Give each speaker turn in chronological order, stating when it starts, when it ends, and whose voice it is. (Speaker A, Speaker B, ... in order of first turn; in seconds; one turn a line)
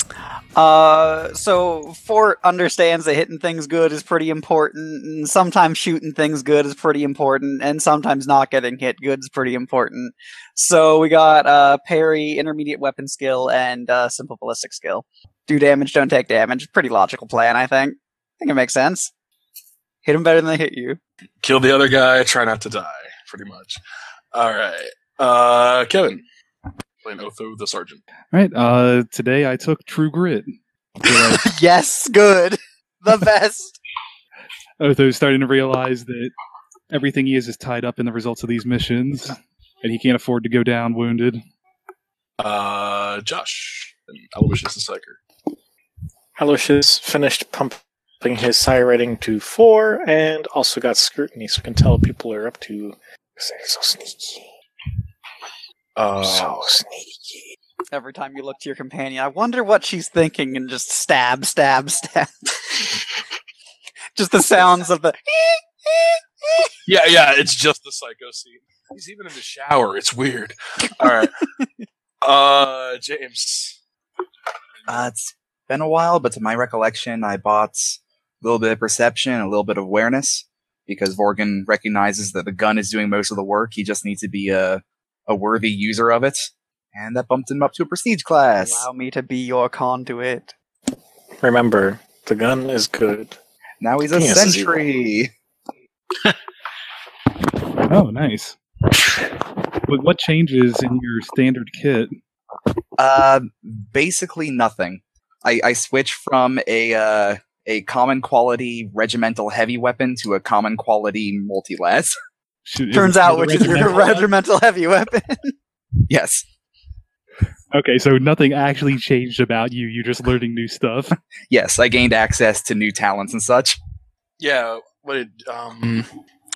Speaker A: 0.6-19.1
Speaker A: 20.0-21.0
Speaker B: 21.4-23.8
Speaker B: 24.3-26.2
Speaker B: 27.0-28.0
Speaker C: 28.3-31.4
Speaker A: 31.1-33.8
Speaker C: 34.8-36.3
Speaker C: 36.9-41.4
Speaker B: 42.4-45.2
Speaker D: 46.4-54.5
Speaker B: 56.0-56.8
Speaker D: 56.2-57.5
Speaker A: 57.9-62.5
Speaker A: 64.2-66.7
Speaker B: 66.9-71.3
Speaker B: 72.2-73.8
Speaker E: 74.9-88.8
Speaker A: 88.6-90.5
Speaker D: 91.4-93.4
Speaker E: 93.8-95.3
Speaker D: 94.1-94.8
Speaker C: 97.8-98.6
Speaker C: 99.8-102.1
Speaker E: 103.0-112.2
Speaker C: 112.7-114.2
Speaker A: 112.9-115.5
Speaker B: 113.6-114.2
Speaker E: 116.1-116.5
Speaker C: 117.7-121.2
Speaker E: 121.5-123.8
Speaker B: 124.4-126.1